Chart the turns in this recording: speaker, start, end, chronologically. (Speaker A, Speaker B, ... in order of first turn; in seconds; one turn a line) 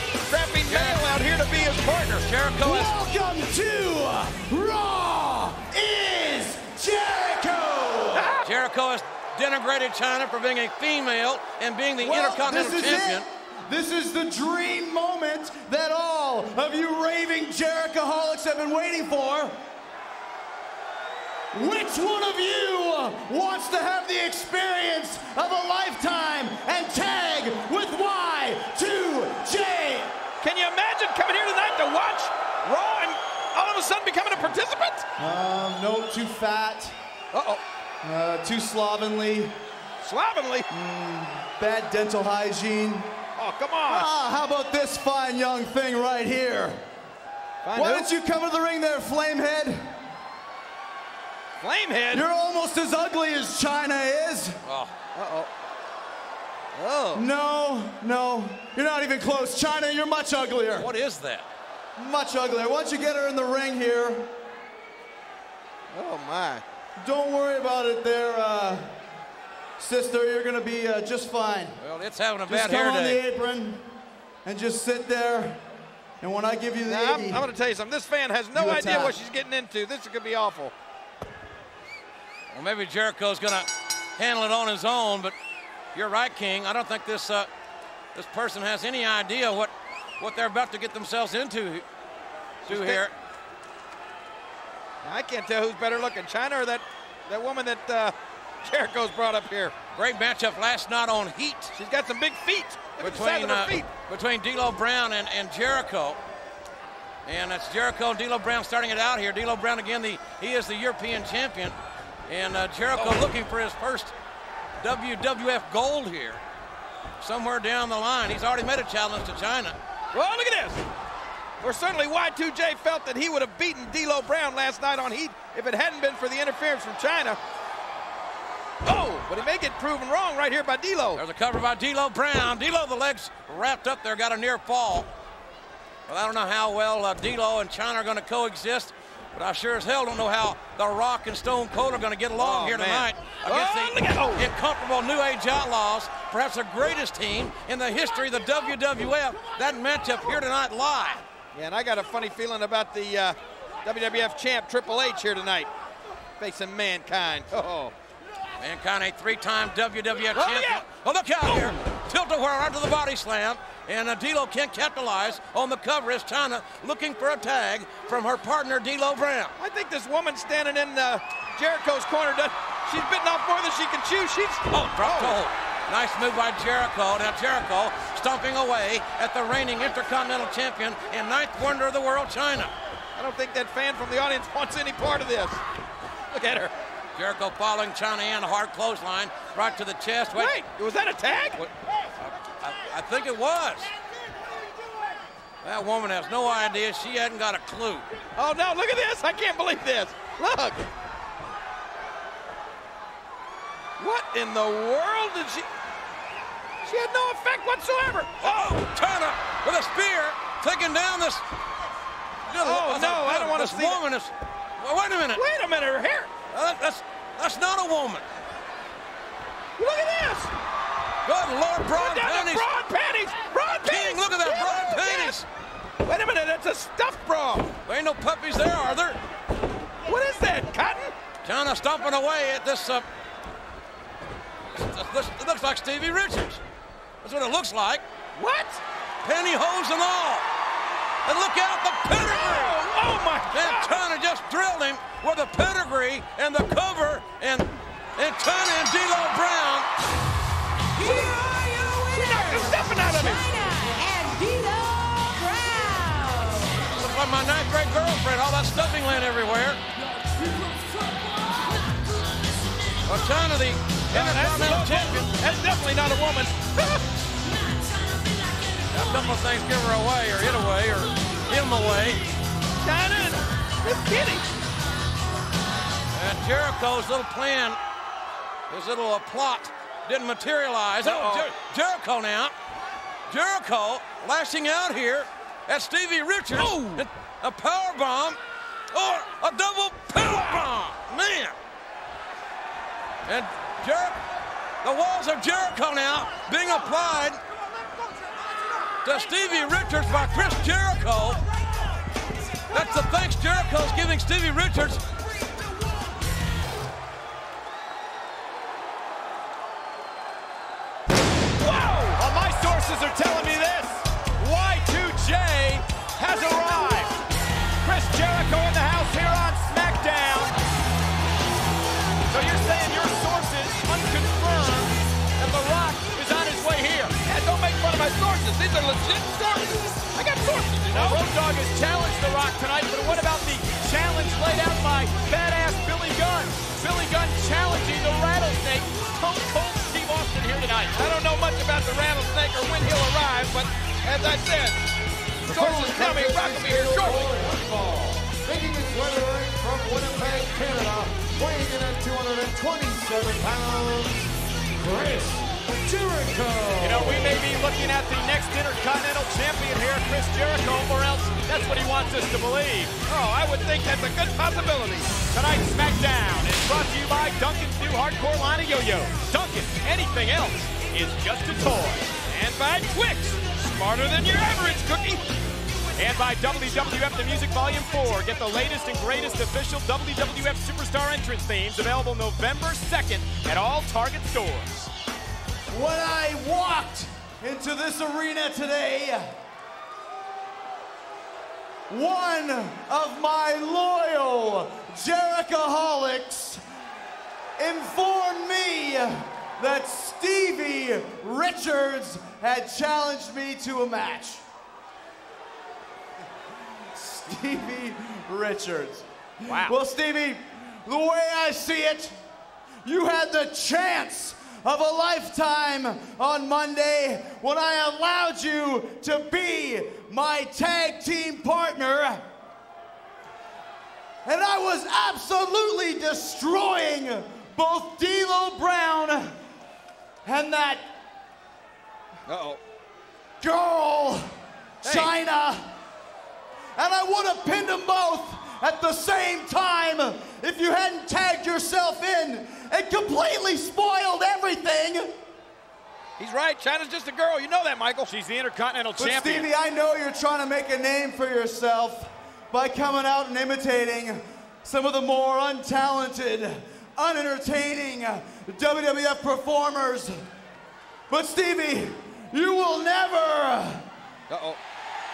Speaker A: 0.3-2.2
Speaker B: 0.7-1.1
Speaker B: 2.2-3.0
Speaker C: 2.6-8.3
Speaker A: 8.1-8.5
Speaker B: 8.4-13.2
Speaker C: 12.0-19.6
Speaker C: 21.5-30.1
Speaker A: 30.4-35.1
Speaker C: 35.2-37.0
Speaker A: 37.3-37.6
Speaker C: 38.0-39.5
Speaker A: 40.0-40.7
Speaker C: 40.7-43.1
Speaker A: 43.4-44.1
Speaker C: 43.9-46.8
Speaker A: 47.6-48.1
Speaker C: 47.7-49.9
Speaker A: 51.6-52.2
Speaker C: 52.1-54.6
Speaker B: 54.6-54.9
Speaker A: 55.1-55.5
Speaker A: 56.7-57.2
Speaker C: 57.1-60.9
Speaker B: 60.8-61.5
Speaker C: 62.0-64.3
Speaker A: 65.9-66.6
Speaker C: 67.0-68.9
Speaker C: 69.8-71.8
Speaker B: 71.8-73.2
Speaker C: 72.5-73.8
Speaker C: 74.4-75.6
Speaker C: 76.2-77.4
Speaker A: 76.9-80.7
Speaker C: 78.5-79.2
Speaker B: 82.5-85.3
Speaker B: 85.9-87.5
Speaker B: 88.1-91.8
Speaker A: 92.6-93.0
Speaker B: 92.7-93.1
Speaker A: 95.0-99.8
Speaker B: 99.9-101.7
Speaker A: 101.7-103.9
Speaker B: 103.0-106.2
Speaker B: 107.2-111.8
Speaker B: 112.3-114.1
Speaker A: 113.0-113.3
Speaker B: 114.8-116.4
Speaker B: 117.2-119.7
Speaker A: 120.1-120.8
Speaker A: 121.6-127.4
Speaker A: 128.8-131.2
Speaker B: 131.1-135.1
Speaker B: 136.1-151.2
Speaker A: 142.3-144.5
Speaker A: 151.5-155.7
Speaker A: 156.4-157.9
Speaker B: 158.6-169.5
Speaker A: 160.3-160.8
Speaker A: 161.4-161.8
Speaker A: 169.6-175.4
Speaker B: 174.7-182.7
Speaker A: 183.2-185.6
Speaker A: 186.3-186.7
Speaker B: 187.2-190.6
Speaker A: 190.3-191.6
Speaker B: 191.6-193.9
Speaker B: 195.6-198.1
Speaker A: 198.3-200.8
Speaker A: 204.0-205.7
Speaker A: 206.8-208.8
Speaker B: 208.4-211.4
Speaker B: 212.5-215.4
Speaker A: 212.6-214.0
Speaker A: 215.3-216.3
Speaker B: 216.5-218.2
Speaker A: 219.8-220.5
Speaker B: 221.2-222.7
Speaker A: 221.9-225.4
Speaker B: 223.8-225.4
Speaker A: 226.0-227.7
Speaker B: 227.8-229.2
Speaker A: 230.0-231.1
Speaker B: 231.4-233.1
Speaker B: 234.7-236.6
Speaker B: 237.2-238.0
Speaker A: 238.3-238.8
Speaker B: 239.2-240.4
Speaker B: 241.2-242.8
Speaker A: 242.1-243.9
Speaker B: 243.5-249.9
Speaker D: 250.9-256.9
Speaker A: 251.0-251.3
Speaker A: 252.1-253.5
Speaker B: 256.9-259.8
Speaker D: 260.1-262.0
Speaker B: 263.0-265.3
Speaker A: 264.1-267.0
Speaker B: 268.9-272.2
Speaker A: 272.8-274.5
Speaker B: 276.1-277.8
Speaker B: 278.7-282.5
Speaker A: 281.0-281.5
Speaker B: 283.3-288.4
Speaker A: 286.5-287.1
Speaker B: 288.9-291.5
Speaker B: 293.2-294.2
Speaker B: 294.8-297.4
Speaker B: 299.0-301.4
Speaker B: 302.7-305.0
Speaker A: 311.6-312.2
Speaker E: 312.2-317.1
Speaker E: 317.8-320.5
Speaker E: 322.3-327.1
Speaker A: 327.2-331.2
Speaker E: 330.9-340.9
Speaker A: 340.9-344.8
Speaker F: 345.4-357.4
Speaker A: 345.5-347.4
Speaker E: 356.8-362.9
Speaker A: 363.1-365.1
Speaker E: 365.3-372.1
Speaker A: 372.2-375.2
Speaker E: 375.9-384.9
Speaker C: 385.7-389.3
Speaker C: 391.9-396.6
Speaker C: 397.6-404.4
Speaker C: 406.9-412.1
Speaker E: 409.5-409.7
Speaker C: 412.8-422.2
Speaker C: 424.2-429.4
Speaker C: 430.2-430.9
Speaker A: 432.3-432.6
Speaker C: 433.4-435.7
Speaker A: 434.8-435.1
Speaker C: 436.8-445.1
Speaker A: 446.2-448.1
Speaker E: 448.1-449.5
Speaker C: 449.0-460.2
Speaker C: 461.1-463.9
Speaker A: 464.3-464.6